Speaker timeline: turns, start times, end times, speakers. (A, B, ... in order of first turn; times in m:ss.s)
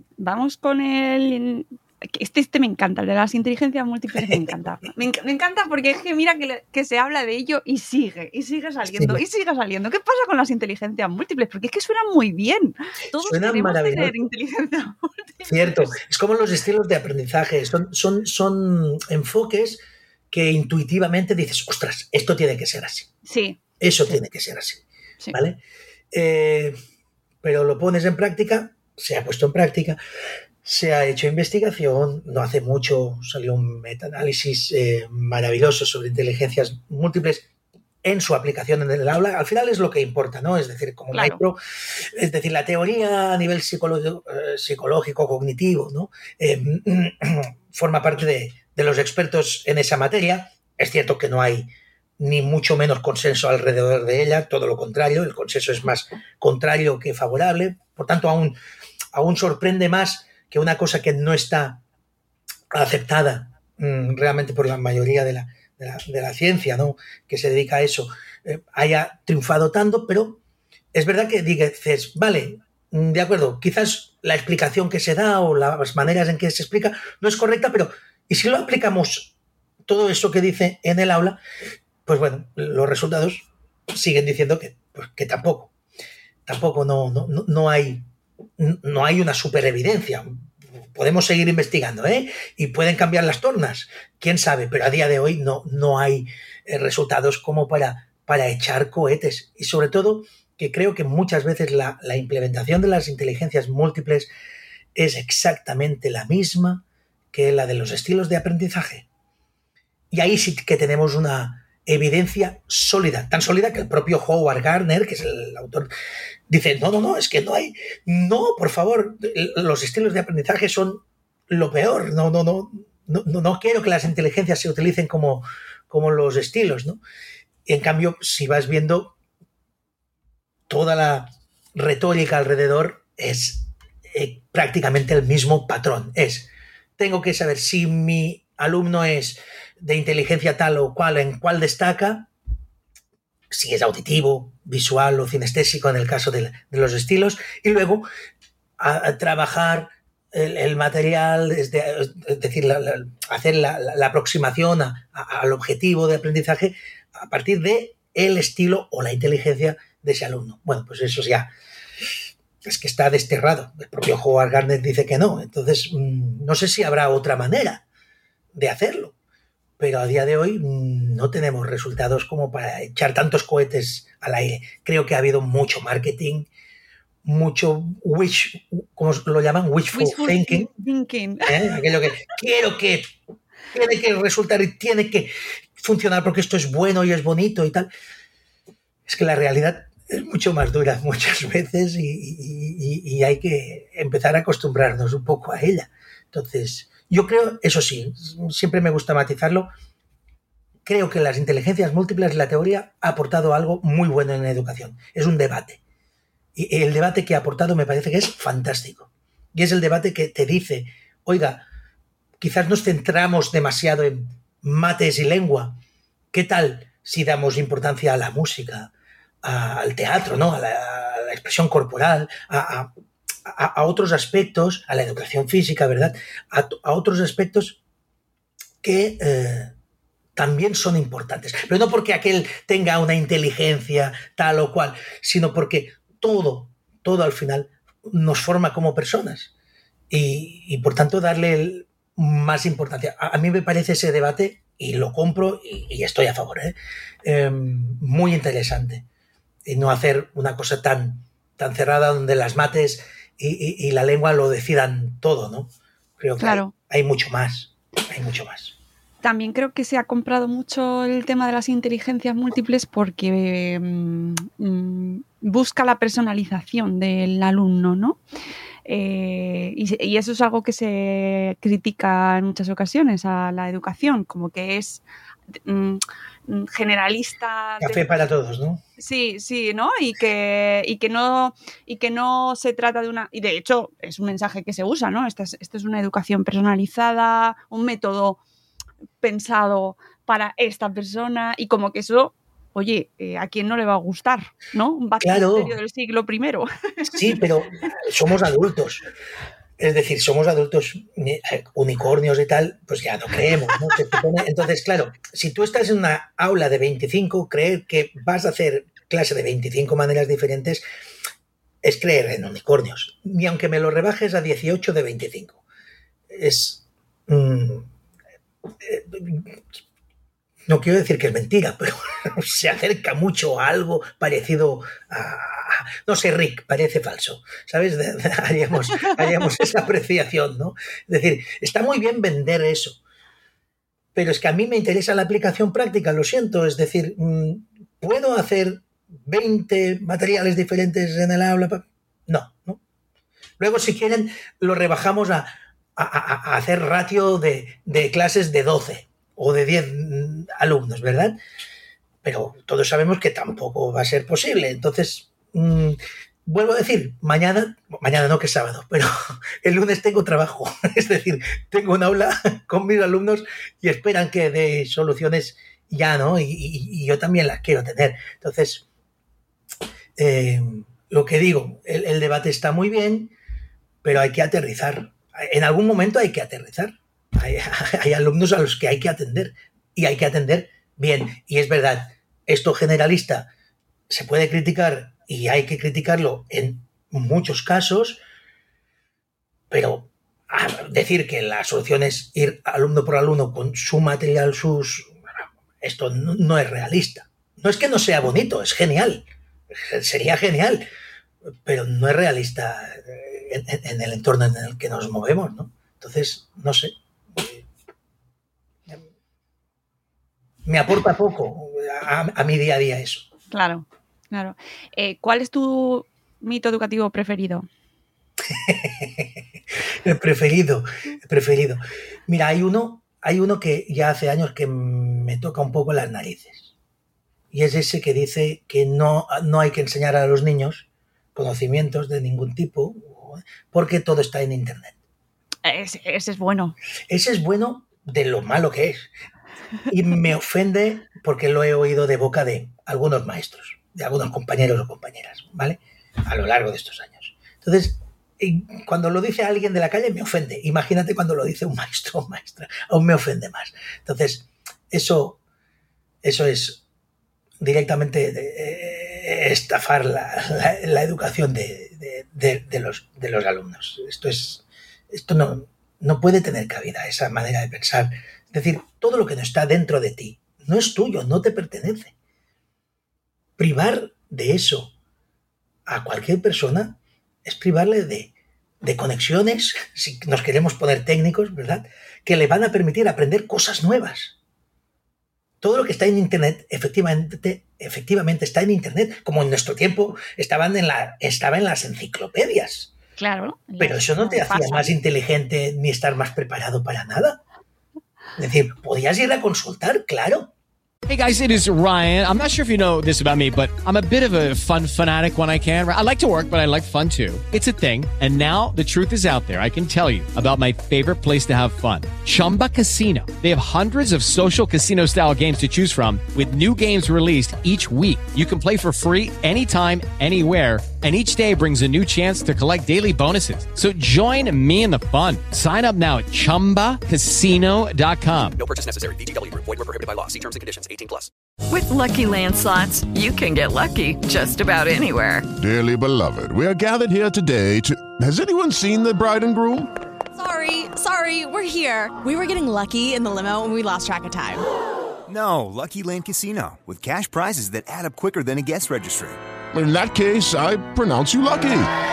0:00.2-0:16.0 A
0:04.2-0:04.5 B
0:08.9-0:09.2 B
0:13.2-0:14.2 B
0:15.5-0:23.1 B
0:23.2-0:24.1 A
0:23.8-0:25.6 B
0:26.1-0:26.8 B
0:27.4-0:30.0 B
0:30.6-0:37.5 B
0:38.0-0:51.7 B
0:41.1-0:41.4 A
0:52.2-0:58.6 B
0:59.1-1:01.8 B
1:02.7-1:10.4 B
1:10.9-1:19.3 B
1:19.9-1:21.4 B
1:22.1-1:25.7 B
1:26.5-1:28.1 B
1:28.6-1:44.3 B
1:45.0-1:49.1 B
1:50.1-1:55.9 B
1:56.5-2:07.0 B
2:07.7-2:09.2 B
2:10.7-2:22.3 B
2:23.5-2:28.1 B
2:28.8-2:41.5 B
2:42.6-2:47.8 B
2:48.5-2:49.2 B
2:49.8-2:56.5 B
2:57.2-3:00.7 B
2:59.9-3:01.8 A
3:01.5-3:03.2 B
3:03.7-3:07.9 B
3:09.1-3:19.7 B
3:20.8-3:25.8 B
3:26.6-3:31.6 B
3:32.4-3:35.8 B
3:36.3-3:38.9 B
3:39.4-3:42.9 B
3:43.5-3:47.8 B
3:48.8-3:49.7 B
3:50.4-3:59.5 B
4:00.1-4:09.1 B
4:09.7-4:18.8 B
4:16.4-4:16.7 A
4:19.2-4:28.2 A
4:28.9-4:35.0 A
4:35.6-4:38.1 A
4:37.8-4:38.8 B
4:39.0-4:48.4 A
4:49.2-4:57.4 A
4:55.2-4:55.8 B
4:57.1-4:59.0 B
4:59.8-5:10.8 B
5:11.8-5:15.6 B
5:16.3-5:17.9 B
5:18.8-5:19.6 B
5:20.7-5:33.0 B
5:34.2-5:42.8 B
5:43.6-5:51.4 B
5:52.2-6:08.8 B
6:10.2-6:13.3 B
6:14.0-6:23.5 B
6:24.1-6:28.2 B
6:29.7-6:35.1 B
6:35.8-6:40.9 B
6:41.6-6:47.6 B
6:50.6-6:53.3 B
6:53.5-6:57.7 A
6:58.5-6:59.4 B
7:00.0-7:06.7 B
7:07.5-7:14.9 B
7:15.6-7:16.8 A
7:17.1-7:19.1 B
7:19.9-7:35.4 B
7:36.2-7:36.8 B
7:37.6-7:52.1 B
7:53.6-7:54.9 B
7:55.9-7:58.3 B
7:58.8-8:04.4 B
8:05.6-8:12.9 B
8:13.2-8:14.9 A
8:13.8-8:17.4 B
8:18.4-8:20.5 B
8:21.1-8:48.6 C
8:48.6-8:51.3 D
8:51.7-8:55.5 E
8:55.6-8:59.9 F
9:00.3-9:04.7 G
9:05.3-9:09.4 H
9:09.7-9:11.9 F